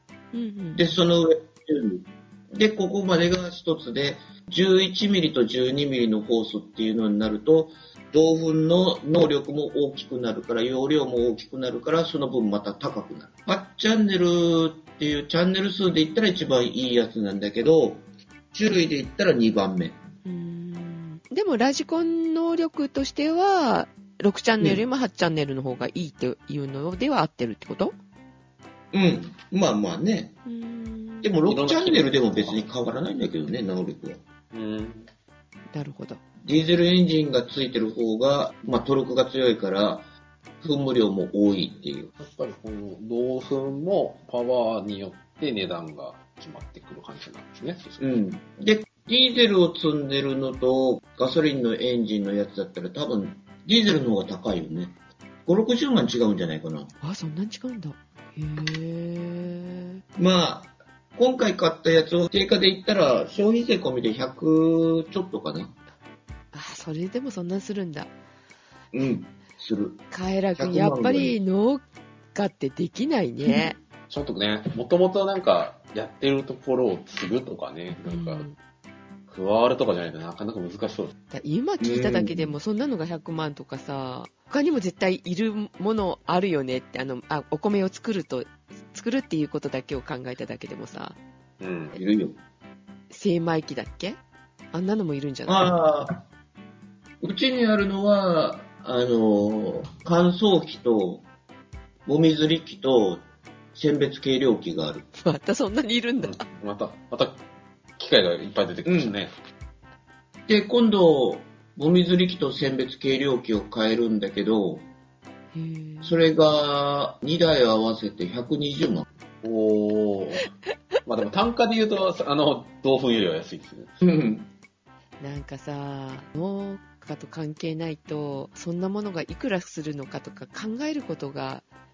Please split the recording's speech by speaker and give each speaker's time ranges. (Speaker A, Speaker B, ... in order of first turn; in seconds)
Speaker A: 0.3-0.8, 20.2-27.9, 30.4-31.3, 35.7-36.2, 57.0-60.0, 66.5-68.1, 70.1-73.8, 78.0-78.5, 81.3-91.2, 93.1-94.2, 94.7-95.8, 105.1-106.4, 115.5-116.2, 125.2-131.6
Speaker B: 0.7-20.0, 28.9-30.4, 31.2-34.2, 36.4-40.1, 40.6-42.1, 48.0-54.9, 55.5-56.9, 60.1-65.7, 68.9-70.0, 70.6-71.4, 73.4-73.7, 81.8-82.5, 91.9-92.4, 95.5-96.2, 97.2-101.2, 102.0-103.2, 103.7-105.0, 108.8-109.2, 110.5-114.8, 116.0-119.0, 124.0-124.5
Speaker C: 31.4-32.6, 34.5-35.1, 42.2-48.1, 74.1-78.5, 79.3-81.1, 91.6-92.0, 106.2-107.4, 108.0-109.3, 119.4-120.5, 121.0-123.9